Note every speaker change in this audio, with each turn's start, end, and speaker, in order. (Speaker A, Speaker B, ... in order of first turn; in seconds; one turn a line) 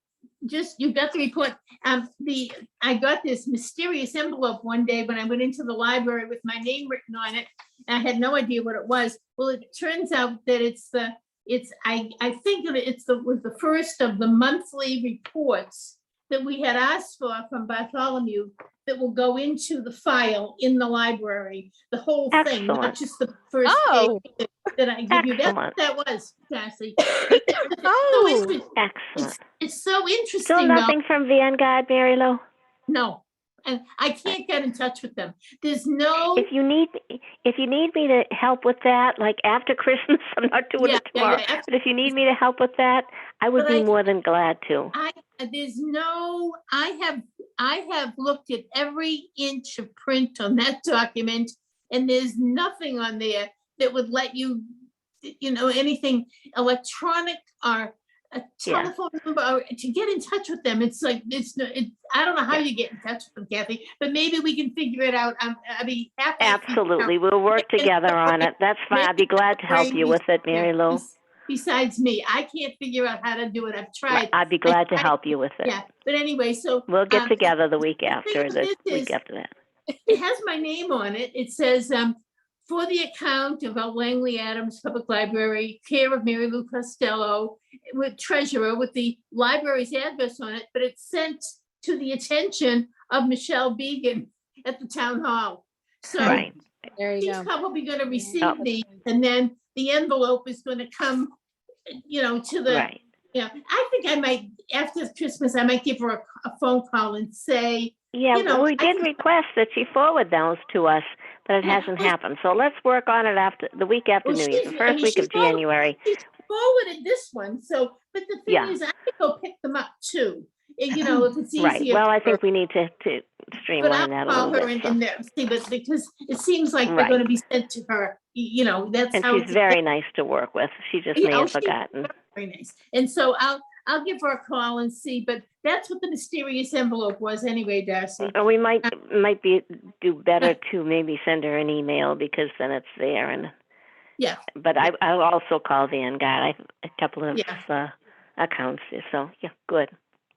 Speaker A: 0.4-30.9
Speaker B: 22.3-23.0
Speaker C: 23.6-24.2
Speaker B: 25.1-25.8
Speaker C: 27.2-28.6
Speaker B: 28.8-29.4
Speaker B: 30.4-32.4
Speaker A: 32.9-36.5
Speaker B: 36.4-44.9
Speaker A: 40.8-41.7
Speaker A: 43.6-43.9
Speaker A: 44.9-54.7
Speaker A: 55.2-77.4
Speaker B: 58.7-58.9
Speaker B: 66.4-71.0
Speaker B: 74.1-75.8
Speaker B: 76.9-79.5
Speaker A: 78.1-79.2
Speaker A: 80.1-96.5
Speaker B: 96.2-96.5
Speaker C: 97.0-97.5
Speaker A: 97.2-101.3
Speaker C: 98.1-98.9
Speaker A: 102.1-109.2
Speaker B: 102.7-103.0
Speaker B: 108.1-116.0
Speaker A: 111.6-112.1
Speaker A: 114.2-122.4
Speaker B: 118.5-118.8
Speaker B: 120.9-125.0
Speaker A: 123.8-129.8
Speaker B: 126.9-127.2
Speaker B: 129.1-132.1
Speaker A: 131.2-138.9
Speaker B: 138.2-143.5
Speaker A: 144.2-144.5
Speaker B: 144.6-149.9
Speaker A: 147.3-147.6